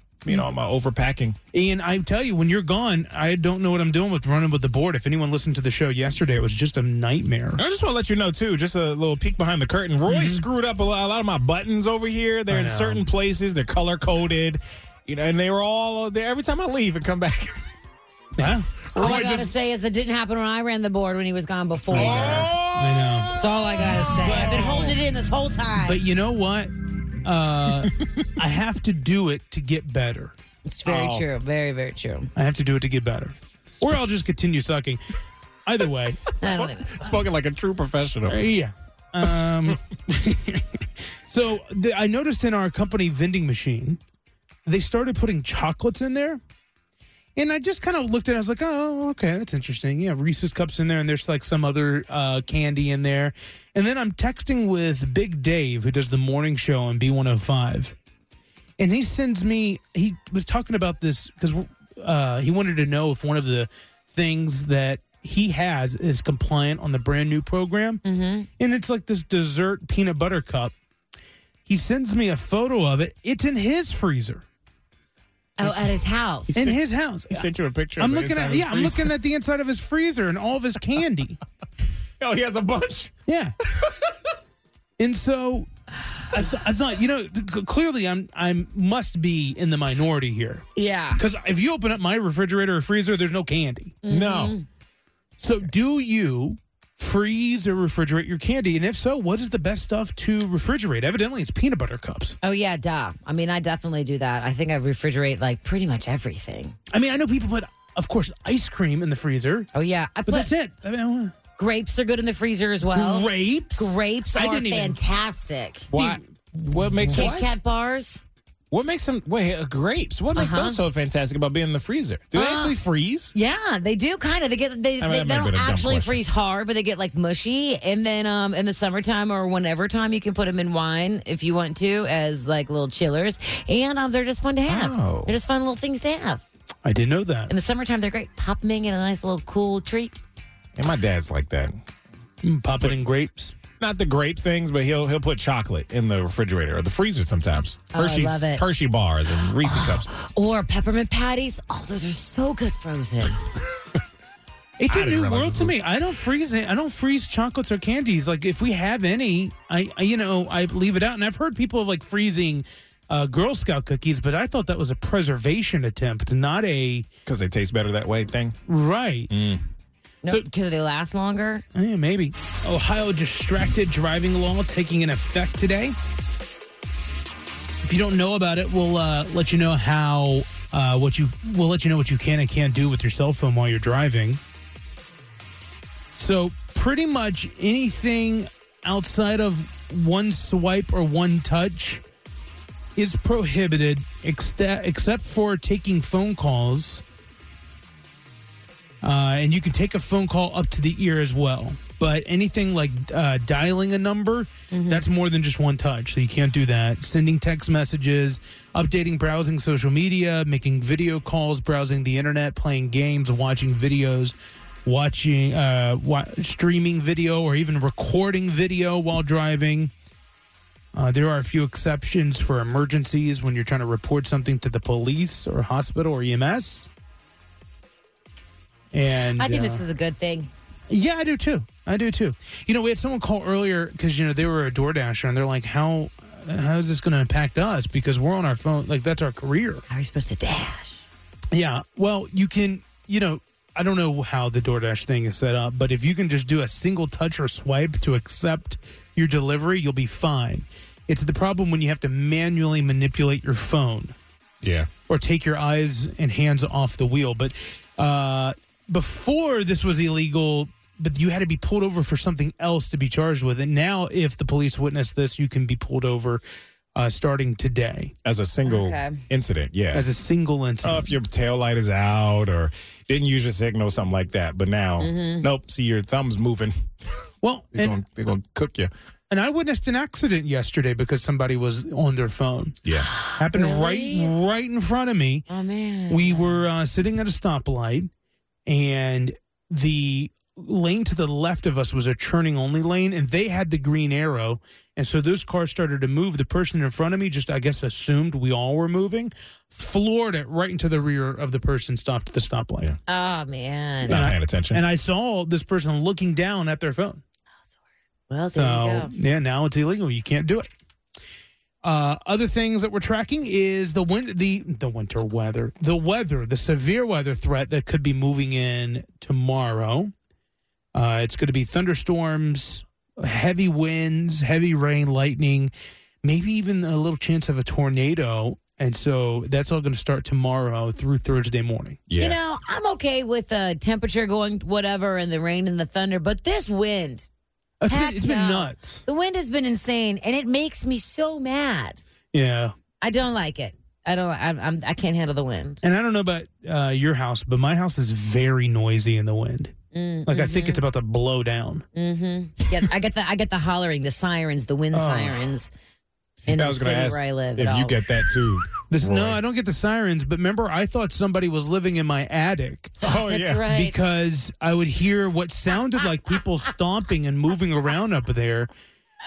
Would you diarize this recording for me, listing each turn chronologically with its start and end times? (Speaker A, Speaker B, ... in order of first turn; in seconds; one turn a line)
Speaker A: 0.2-1.4
Speaker B: 1.5-7.6
Speaker A: 7.6-17.6
Speaker B: 10.1-10.4
Speaker B: 12.5-13.1
Speaker B: 18.4-18.7
Speaker A: 18.9-19.5
Speaker C: 18.9-22.5
Speaker B: 21.9-23.3
Speaker A: 21.9-23.4
Speaker C: 23.4-26.0
Speaker A: 24.2-24.9
Speaker B: 24.3-24.8
Speaker B: 25.8-26.7
Speaker B: 27.2-30.3
Speaker C: 30.7-32.3
Speaker A: 30.9-31.3
Speaker B: 32.4-35.0
Speaker B: 35.7-36.2
Speaker C: 36.4-37.2
Speaker A: 36.4-38.5
Speaker B: 38.3-44.0
Speaker B: 44.7-46.4
Speaker B: 47.4-58.0
Speaker B: 58.8-68.0
Speaker C: 68.0-68.5
Speaker B: 68.6-70.7
Speaker B: 71.7-74.4
Speaker C: 75.6-76.6
Speaker B: 76.5-77.5
Speaker A: 76.5-79.2
Speaker B: 78.0-81.4
Speaker A: 82.2-83.1
Speaker B: 83.3-83.5
Speaker B: 85.0-85.7
Speaker B: 86.3-94.0
Speaker C: 90.8-91.2
Speaker C: 94.0-94.7
Speaker A: 94.1-94.5
Speaker B: 95.4-102.4
Speaker C: 102.4-106.8
Speaker B: 106.9-109.7
Speaker C: 109.7-110.5
Speaker B: 110.3-111.3
Speaker C: 111.6-115.9
Speaker B: 112.9-115.0
Speaker A: 115.9-117.5
Speaker B: 115.9-117.5
Speaker C: 117.1-118.2
Speaker A: 118.7-123.3
Speaker C: 120.3-120.8
Speaker C: 122.3-122.8
Speaker C: 123.3-136.4
Speaker A: 125.0-126.2
Speaker A: 134.7-135.3
Speaker B: 136.8-137.5
Speaker C: 137.5-140.2
Speaker A: 140.8-141.8
Speaker B: 142.4-143.6
Speaker A: 143.8-150.1
Speaker C: 147.9-148.6
Speaker C: 149.6-153.4
Speaker B: 154.8-167.1
Speaker A: 154.9-155.8
Speaker A: 167.3-168.6
Speaker B: 168.7-169.3
Speaker A: 169.3-169.6
Speaker C: 170.2-171.7
Speaker B: 171.7-175.9
Speaker B: 177.8-184.4
Speaker B: 186.2-192.0
Speaker B: 193.0-197.0
Speaker B: 199.0-214.3
Speaker C: 204.7-205.1
Speaker B: 214.8-219.9
Speaker B: 220.9-226.9
Speaker B: 228.9-229.8
Speaker C: 229.4-230.5
Speaker B: 230.9-239.8
Speaker C: 239.9-241.0
Speaker B: 241.5-254.2
Speaker A: 254.6-254.9
Speaker B: 255.1-266.4
Speaker B: 266.9-268.1
Speaker A: 268.2-270.1
Speaker C: 268.7-269.2
Speaker B: 269.9-271.1
Speaker A: 270.8-276.8
Speaker C: 275.0-275.5
Speaker B: 277.4-278.0
Speaker A: 277.7-278.9
Speaker B: 279.3-282.8
Speaker A: 282.9-283.1
Speaker C: 283.1-284.3
Speaker B: 283.4-285.5
Speaker C: 285.5-286.6
Speaker B: 286.1-288.1
Speaker B: 288.7-302.9
Speaker C: 303.1-304.2
Speaker A: 304.0-304.8
Speaker B: 304.1-307.2
Speaker C: 308.3-309.1
Speaker B: 308.5-310.7
Speaker B: 311.8-320.1
Speaker B: 320.9-325.7
Speaker B: 326.2-332.0
Speaker A: 332.1-332.4
Speaker C: 332.2-337.3
Speaker B: 337.8-339.0
Speaker C: 337.9-342.0
Speaker B: 342.3-342.7
Speaker C: 343.0-345.8
Speaker B: 345.8-349.7
Speaker C: 349.9-350.8
Speaker B: 350.3-351.9
Speaker C: 351.9-355.7
Speaker B: 354.9-355.4
Speaker C: 356.4-357.9
Speaker A: 356.5-359.4
Speaker B: 358.9-362.9
Speaker A: 363.0-363.6
Speaker C: 363.1-364.0
Speaker B: 363.7-368.7